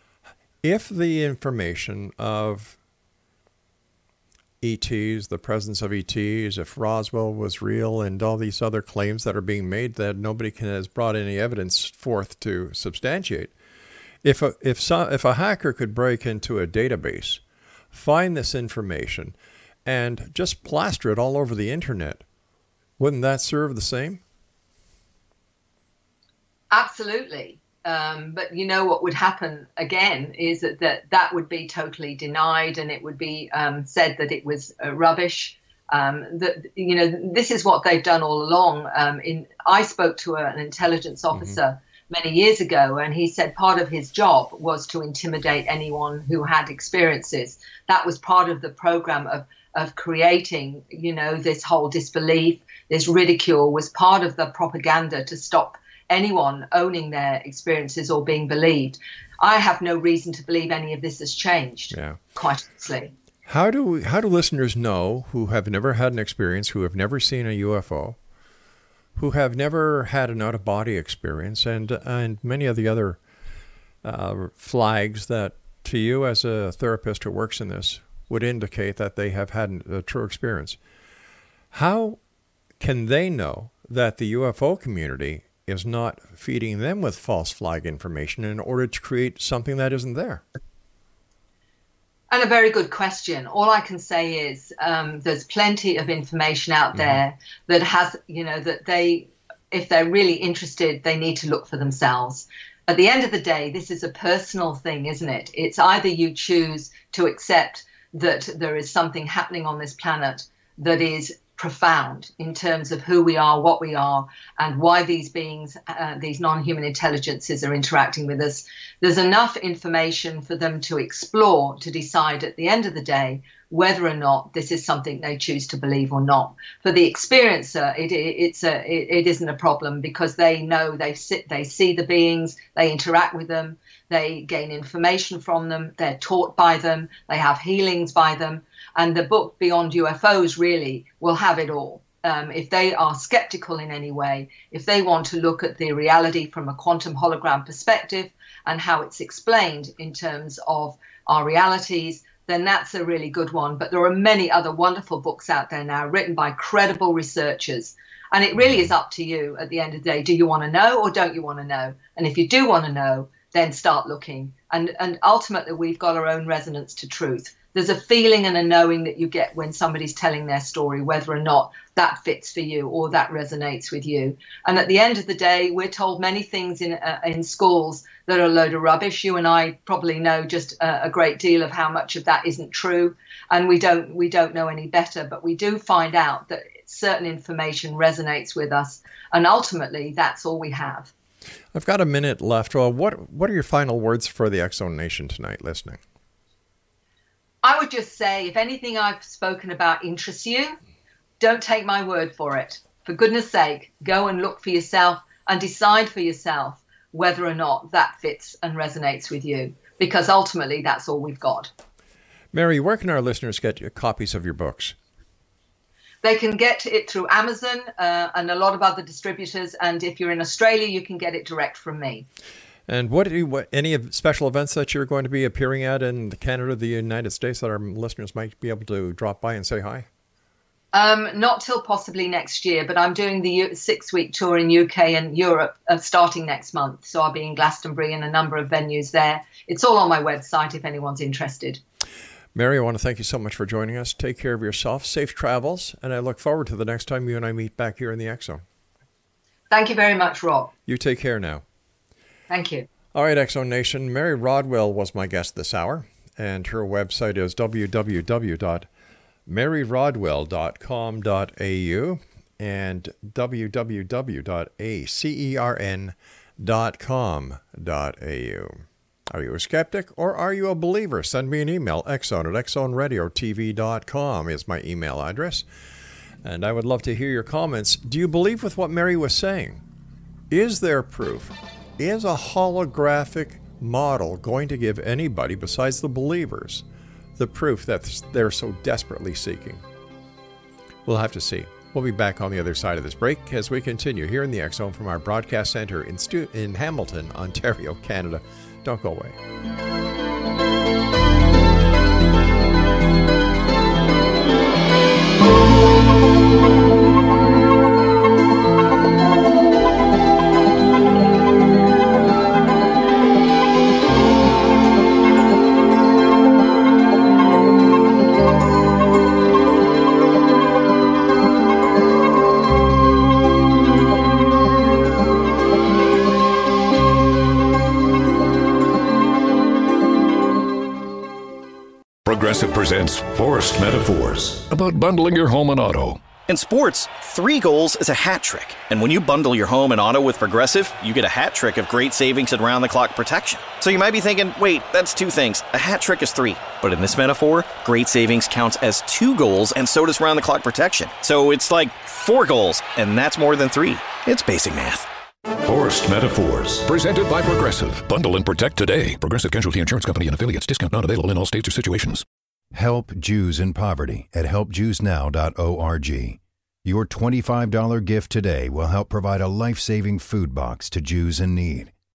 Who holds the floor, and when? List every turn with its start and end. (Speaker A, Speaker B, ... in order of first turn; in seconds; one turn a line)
Speaker A: 0.6-2.8
Speaker A: 4.6-13.5
Speaker A: 14.2-17.4
Speaker A: 17.9-22.2
Speaker A: 23.0-24.2
Speaker B: 26.7-63.1
Speaker A: 61.9-62.2
Speaker A: 63.5-68.2
Speaker A: 69.2-73.2
Speaker A: 74.0-80.8
Speaker A: 81.7-82.2
Speaker A: 82.8-90.4
Speaker B: 92.3-191.1
Speaker A: 191.7-196.0
Speaker B: 197.6-200.8
Speaker B: 201.4-211.7
Speaker A: 212.5-215.0
Speaker B: 216.2-222.3
Speaker A: 222.9-230.1
Speaker B: 230.9-241.8
Speaker A: 242.5-248.6
Speaker B: 249.7-250.7
Speaker A: 250.9-251.6
Speaker B: 252.5-252.9
Speaker A: 253.1-258.9
Speaker A: 259.5-275.7
Speaker A: 276.4-279.8
Speaker A: 280.5-286.9
Speaker A: 287.4-289.8
Speaker A: 291.1-299.4
Speaker C: 332.2-336.2
Speaker D: 336.5-355.1
Speaker C: 355.6-362.2
Speaker E: 362.7-371.9